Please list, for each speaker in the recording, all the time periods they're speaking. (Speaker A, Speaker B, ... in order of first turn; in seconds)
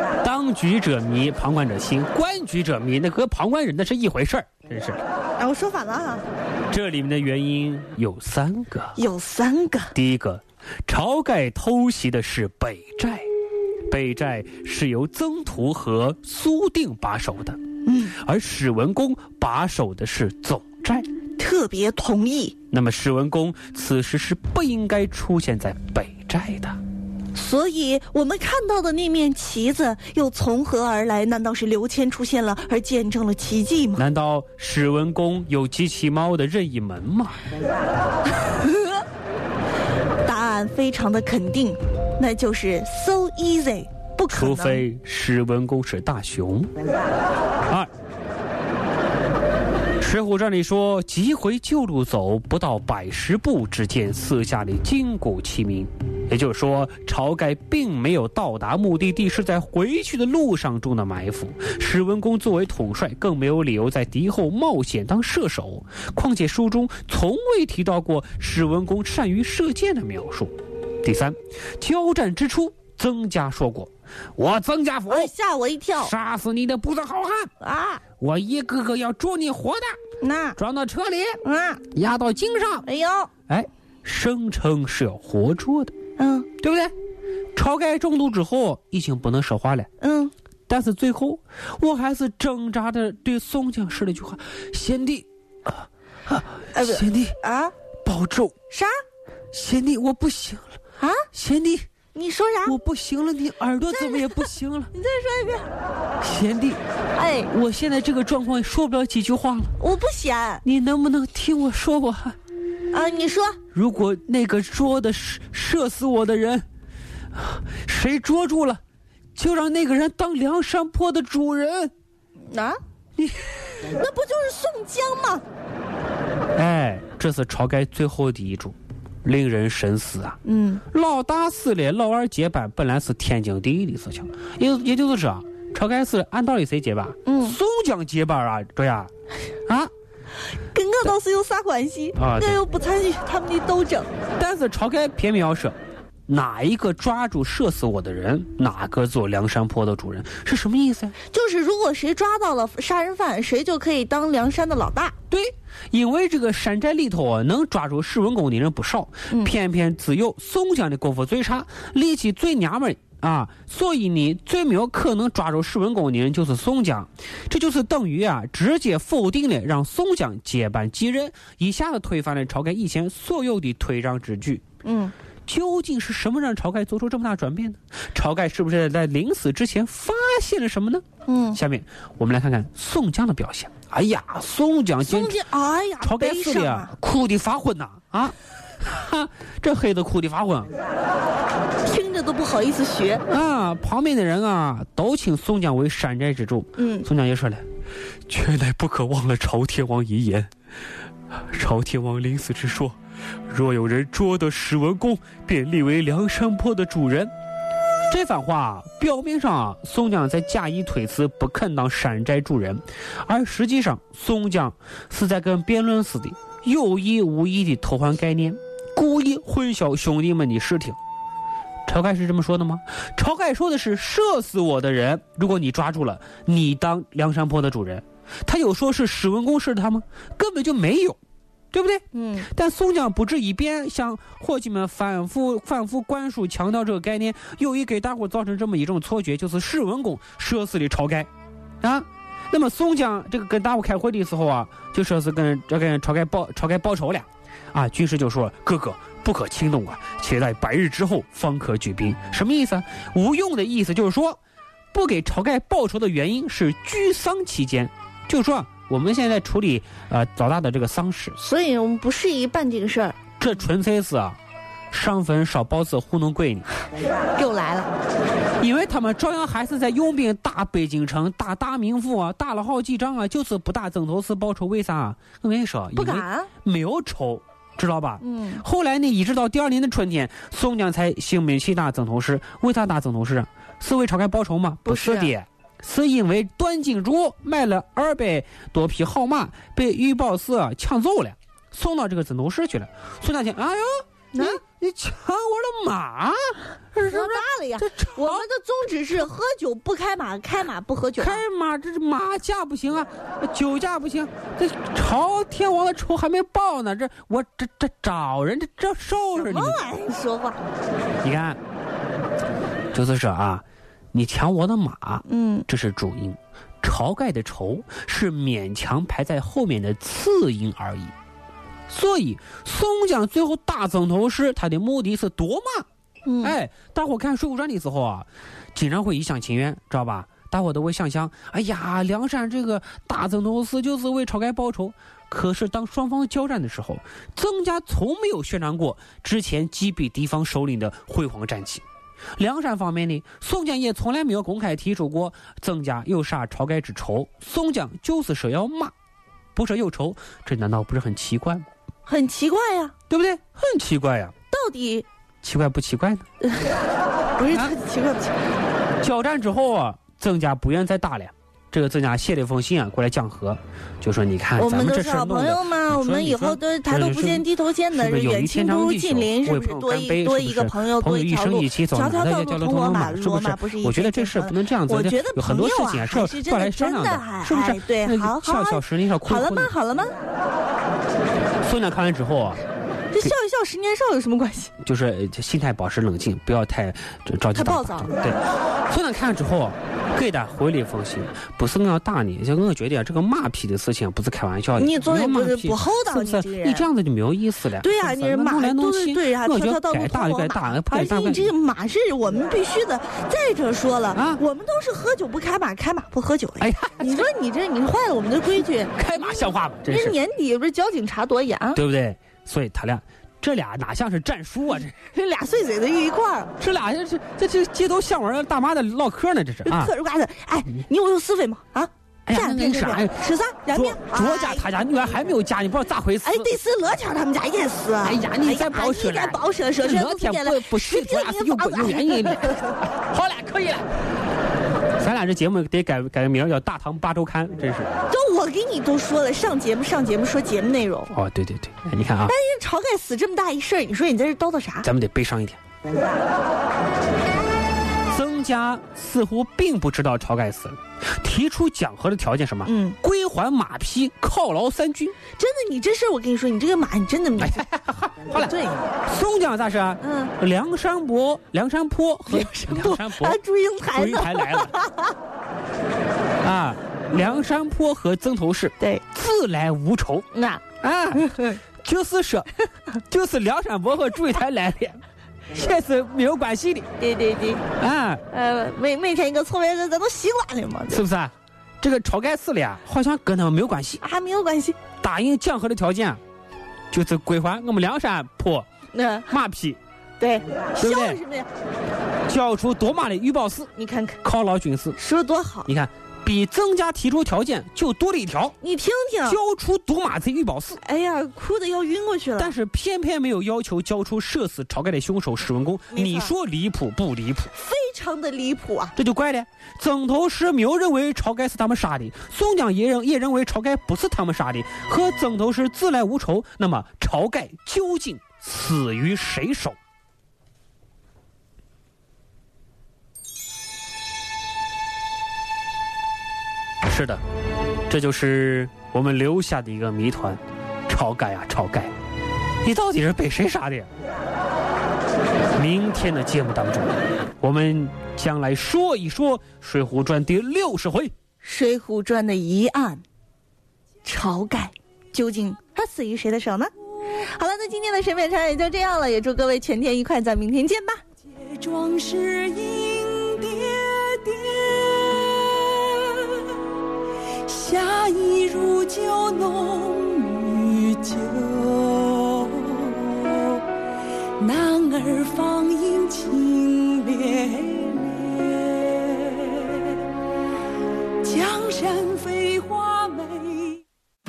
Speaker A: 0.2-5.0, 6.7-9.0, 9.9-13.3, 13.9-21.1, 22.7-26.8, 34.0-37.4, 44.3-46.7, 50.0-75.3, 76.0-77.5, 78.2-80.0, 80.6-81.4, 81.9-82.8, 83.5-85.9, 86.6-86.9, 87.5-89.9, 90.7-97.3, 98.0-98.5, 99.5-100.8, 101.3-101.8, 102.7-104.9, 106.2-106.8, 107.5-109.7, 110.6-112.3, 113.7-116.6, 117.3-118.8, 119.3-121.9, 123.2-123.8, 126.5-130.4, 130.9-139.1, 142.2-142.6, 144.4-145.7, 146.3-151.1, 155.3-174.6, 175.5-185.4, 186.0-190.7, 193.3-197.6, 198.3-200.5, 201.3-202.9, 203.5-207.3, 208.1-221.0, 221.8-231.2, 231.7-241.3, 241.8-254.4, 254.9-261.4, 263.4-264.4, 264.9-266.7, 268.6-298.4, 301.2-309.8, 311.2-311.6, 312.9-321.1, 321.9-325.9, 326.4-341.8, 342.4-348.9, 349.5-351.6, 353.1-354.3, 355.4-356.2, 359.0-379.7, 381.6-382.6, 384.8-401.5, 404.1-404.4, 406.6-407.3, 408.9-410.1, 411.7-414.9, 416.6-419.9, 422.3-426.5, 428.0-433.9, 435.0-437.9, 441.1-442.3, 444.8-445.6, 448.1-455.2, 457.4-458.5, 459.1-463.4, 463.9-464.7, 466.4-470.3, 470.8-476.9, 477.8-478.2, 480.9-484.0, 485.0-486.2, 486.9-488.7, 489.3-489.8, 490.8-491.2, 492.3-493.7, 494.2-495.0, 495.6-498.6, 499.2-500.8, 502.4-507.5, 508.9-519.8, 526.8-527.2, 527.9-531.9, 532.6-533.9, 535.6-541.1
Speaker B: 5.4-6.2, 8.9-9.9, 17.8-18.1, 21.4-22.6, 27.3-34.0, 38.5-39.0, 40.2-44.8, 75.1-76.1, 77.6-78.0, 80.2-80.6, 81.4-81.8, 82.8-83.3, 86.2-86.5, 90.0-90.3, 96.7-97.7, 98.7-99.0, 101.0-101.2, 102.1-102.8, 104.0-104.4, 104.9-105.7, 107.1-107.5, 109.8-110.6, 112.9-113.6, 122.5-122.8, 123.8-125.4, 130.4-130.8, 137.2-137.6, 140.7-144.1, 151.3-155.1, 174.8-175.1, 181.3-181.6, 185.0-186.9, 191.8-193.2, 196.8-197.1, 232.1-232.5, 261.4-263.2, 267.3-267.9, 275.9-276.5, 278.2-278.6, 284.9-285.3, 294.3-294.6, 297.0-301.4, 309.4-310.6, 315.2-315.6, 326.2-326.6, 352.1-352.9, 354.5-355.1, 357.4-358.4, 364.5-380.1, 383.1-384.7, 387.5-388.1, 394.8-396.9, 397.8-411.8, 415.1-416.5, 419.6-424.6, 426.2-432.6, 438.1-441.1, 442.3-444.9, 452.6-453.0, 455.4-457.6, 458.3-458.9, 460.0-460.3, 462.3-465.1, 468.8-469.0, 470.3-471.5, 477.0-477.6, 478.3-481.0, 484.0-484.8, 488.9-489.3, 490.2-491.5, 493.8-494.2, 495.0-495.7, 498.6-499.4, 500.8-502.6, 505.9-506.3, 507.6-508.9, 541.4-543.0, 544.0-551.0
Speaker C: 551.3-556.6, 557.3-563.6, 564.4-570.0, 571.2-573.8